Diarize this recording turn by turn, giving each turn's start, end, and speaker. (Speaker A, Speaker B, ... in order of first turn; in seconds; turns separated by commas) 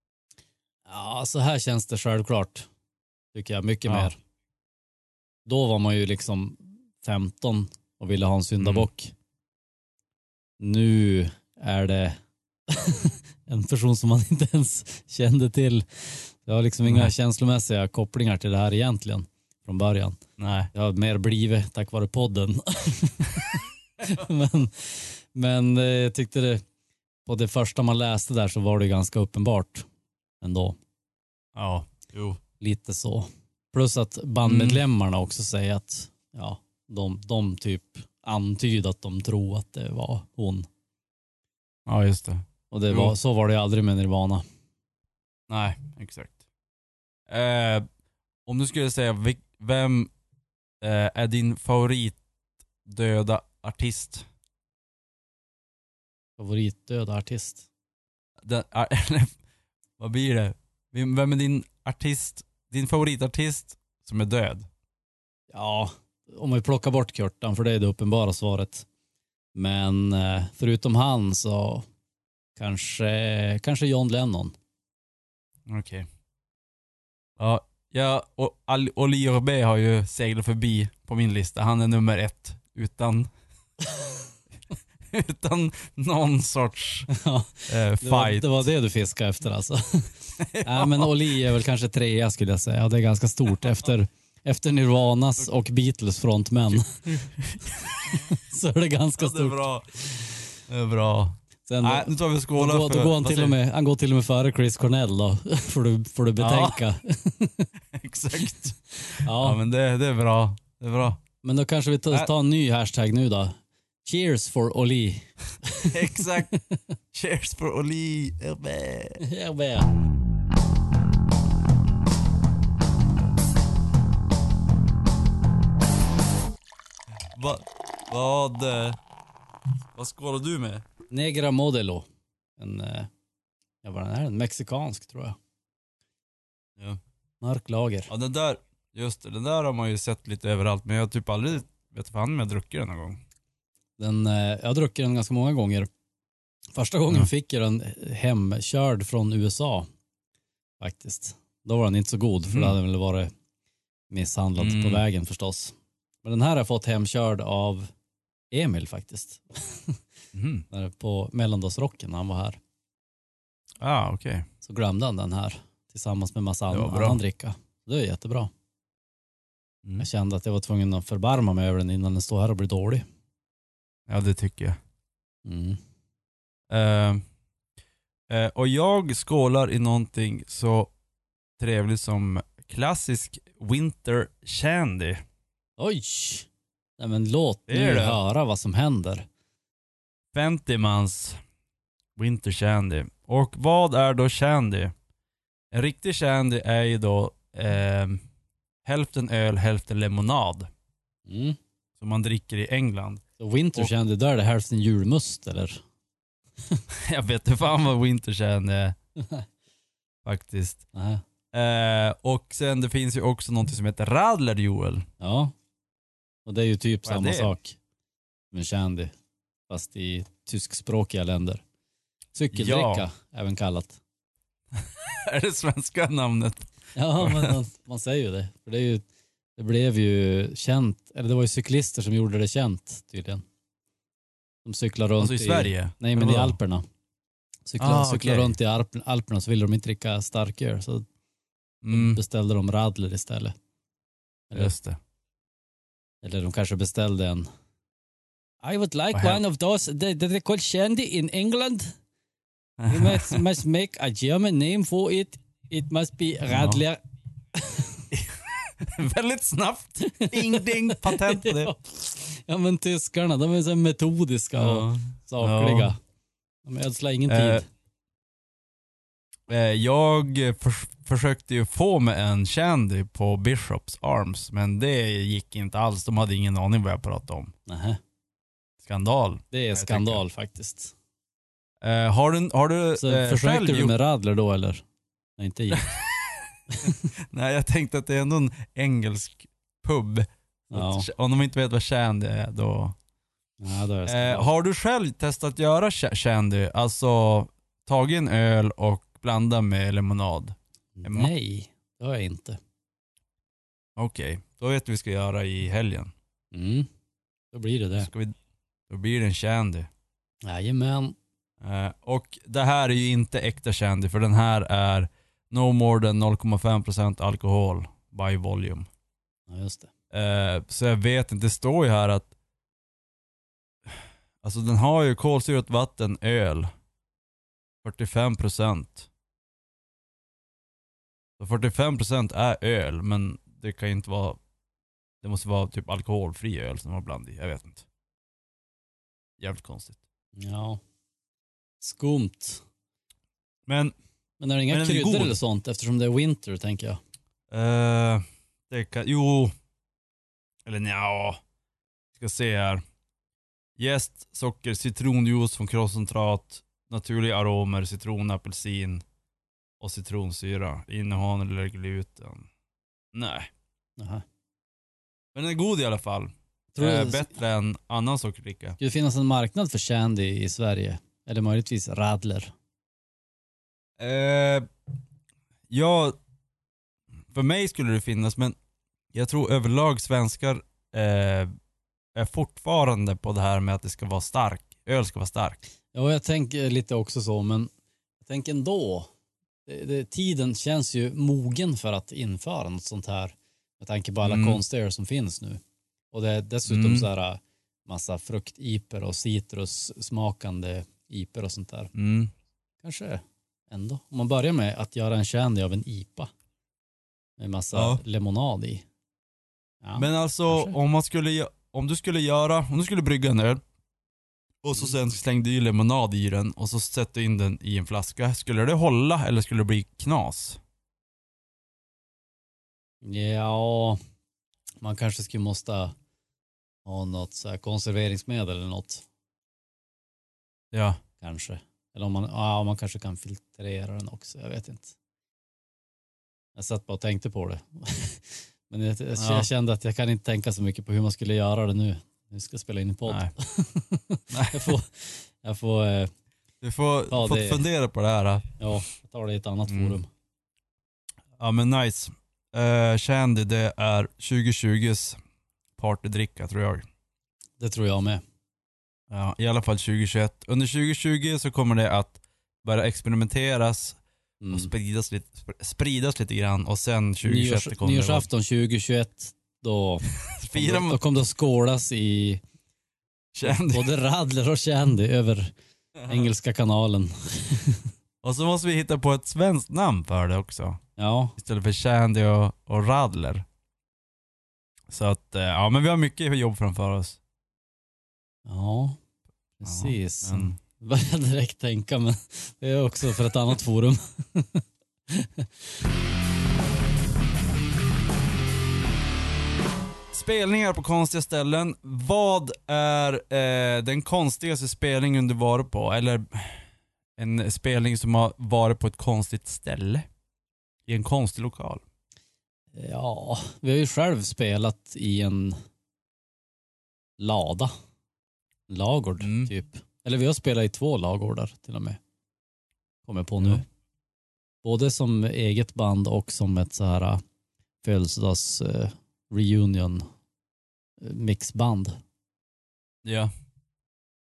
Speaker A: 0.9-2.7, Speaker A: 3.3-4.2, Speaker A: 5.5-9.1, Speaker B: 8.6-8.9, Speaker A: 10.6-20.2, Speaker B: 16.9-17.1, Speaker B: 20.4-20.7, Speaker A: 20.7-26.6, Speaker A: 27.3-29.9, Speaker A: 30.4-30.8, Speaker B: 31.6-32.4, Speaker A: 32.6-40.7, Speaker B: 34.4-34.8, Speaker B: 41.9-43.1, Speaker A: 42.7-44.4, Speaker B: 45.5-46.4, Speaker B: 47.3-47.9, Speaker B: 48.5-50.1, Speaker B: 50.8-52.2, Speaker B: 52.9-54.3, Speaker A: 56.4-57.7, Speaker B: 58.4-59.4, Speaker B: 60.0-64.7, Speaker A: 65.5-68.9, Speaker A: 69.5-71.8, Speaker A: 72.6-74.5, Speaker B: 75.7-76.1, Speaker B: 77.4-83.3, Speaker B: 85.1-87.1, Speaker A: 87.1-97.1, Speaker B: 87.7-88.7, Speaker B: 90.4-91.1, Speaker B: 96.7-98.2, Speaker A: 98.1-100.4, Speaker B: 99.2-99.9, Speaker B: 100.7-103.6, Speaker A: 101.7-107.7, Speaker B: 106.4-106.8, Speaker B: 107.9-111.2, Speaker A: 109.0-109.6, Speaker A: 111.4-116.8, Speaker B: 115.8-116.5, Speaker B: 117.1-119.2, Speaker A: 119.2-119.9, Speaker B: 127.3-129.0, Speaker B: 129.9-130.8, Speaker A: 131.1-132.1, Speaker A: 132.6-133.1, Speaker A: 133.8-135.4, Speaker A: 137.4-138.1, Speaker B: 138.1-143.2, Speaker A: 144.0-145.9, Speaker A: 146.8-149.9, Speaker A: 150.8-153.3, Speaker B: 152.5-152.8, Speaker A: 154.1-157.9, Speaker B: 154.6-155.0, Speaker A: 158.5-160.0, Speaker B: 160.3-160.7, Speaker A: 160.7-162.6, Speaker B: 163.8-164.5, Speaker A: 164.6-168.5, Speaker B: 166.7-167.2, Speaker A: 170.0-173.0, Speaker B: 174.1-174.8, Speaker A: 175.4-175.8, Speaker B: 176.7-177.2, Speaker B: 178.3-180.9, Speaker B: 181.6-185.2, Speaker A: 185.8-189.3, Speaker B: 187.7-188.2, Speaker B: 190.3-191.4, Speaker B: 192.2-194.9, Speaker B: 195.7-198.2, Speaker B: 198.8-200.7, Speaker A: 201.3-201.6, Speaker B: 202.0-203.2, Speaker A: 203.4-205.8, Speaker B: 206.9-209.0, Speaker A: 209.2-209.4, Speaker B: 210.2-210.8, Speaker A: 210.9-211.2, Speaker B: 211.5-215.1, Speaker A: 215.2-215.5, Speaker A: 216.5-217.8, Speaker B: 217.1-217.6, Speaker A: 218.5-219.1, Speaker A: 219.7-221.6, Speaker A: 222.3-224.0, Speaker B: 222.5-223.1, Speaker B: 224.8-227.5, Speaker A: 226.9-229.0, Speaker A: 229.6-233.4, Speaker A: 234.7-236.8, Speaker B: 235.2-236.6, Speaker A: 237.7-241.1, Speaker B: 237.8-238.6, Speaker B: 241.8-242.2, Speaker A: 241.9-243.6, Speaker B: 244.5-245.0, Speaker A: 246.2-247.5, Speaker A: 248.6-251.9, Speaker B: 249.1-249.4, Speaker B: 252.8-253.4, Speaker A: 252.9-257.0, Speaker B: 256.5-256.8, Speaker A: 257.5-258.1, Speaker B: 258.1-261.7, Speaker A: 260.0-266.0, Speaker B: 264.6-265.9, Speaker A: 266.6-267.7, Speaker B: 267.3-267.6, Speaker B: 269.5-277.5, Speaker A: 277.7-278.0, Speaker B: 278.8-280.2, Speaker A: 279.5-280.9, Speaker B: 281.8-283.9, Speaker A: 283.0-284.8, Speaker A: 285.4-285.9, Speaker B: 285.7-293.0, Speaker A: 286.7-287.1, Speaker A: 290.7-291.1, Speaker A: 293.6-294.5, Speaker B: 294.1-301.3, Speaker A: 301.0-302.6, Speaker B: 304.0-306.1, Speaker A: 306.5-306.9, Speaker A: 307.5-308.1, Speaker B: 308.0-308.4, Speaker B: 308.9-309.9, Speaker A: 310.4-311.2, Speaker B: 311.6-318.9, Speaker A: 319.5-319.9, Speaker B: 320.1-322.3, Speaker B: 323.9-326.7, Speaker B: 327.8-329.1, Speaker B: 331.4-334.4, Speaker B: 335.2-337.8, Speaker B: 339.4-340.0, Speaker A: 340.4-340.8, Speaker A: 341.8-342.6, Speaker B: 343.7-343.9, Speaker A: 344.4-347.0, Speaker B: 344.7-345.4, Speaker B: 347.5-349.5, Speaker B: 350.6-351.4, Speaker B: 352.1-352.8, Speaker B: 353.8-359.0, Speaker B: 359.8-362.5, Speaker B: 363.1-363.5, Speaker A: 364.0-364.2, Speaker B: 365.3-368.8, Speaker A: 366.8-367.4, Speaker A: 368.8-372.5, Speaker B: 374.0-374.7, Speaker B: 375.7-376.2, Speaker B: 377.3-378.6, Speaker B: 379.1-381.5, Speaker B: 382.1-385.6, Speaker A: 385.9-387.7, Speaker A: 388.2-389.1, Speaker A: 389.7-401.9, Speaker B: 394.2-394.6, Speaker B: 396.7-397.1, Speaker B: 401.9-402.3, Speaker A: 402.8-406.3, Speaker A: 407.4-408.9, Speaker B: 407.7-408.0, Speaker A: 409.8-410.8, Speaker B: 410.0-413.6, Speaker B: 414.6-420.6, Speaker A: 423.0-424.0, Speaker A: 424.8-425.9, Speaker A: 426.9-429.1, Speaker B: 430.7-431.0, Speaker A: 431.2-434.9, Speaker A: 436.6-446.1, Speaker B: 439.2-439.5, Speaker B: 444.3-444.8, Speaker B: 446.6-448.5, Speaker A: 447.1-447.6, Speaker A: 448.6-450.1, Speaker B: 449.7-450.0, Speaker B: 451.4-455.2, Speaker B: 455.8-456.9, Speaker A: 457.6-458.2, Speaker B: 459.1-464.0, Speaker A: 464.4-464.7, Speaker B: 464.5-468.3, Speaker A: 467.2-472.4, Speaker B: 470.3-471.0, Speaker B: 473.3-473.9, Speaker A: 473.4-475.5, Speaker A: 476.1-477.9, Speaker B: 478.2-480.8, Speaker A: 481.0-481.4, Speaker B: 481.4-483.4, Speaker B: 484.9-487.2, Speaker A: 488.5-489.0, Speaker A: 489.6-495.5, Speaker B: 489.6-490.6, Speaker B: 500.1-506.6, Speaker B: 507.2-510.1, Speaker B: 510.9-511.8, Speaker A: 512.8-515.6, Speaker A: 517.2-517.7, Speaker A: 518.7-522.0, Speaker B: 519.2-519.5, Speaker A: 523.1-523.6, Speaker A: 524.6-527.2, Speaker A: 527.8-530.1, Speaker A: 531.0-532.0, Speaker B: 533.0-533.3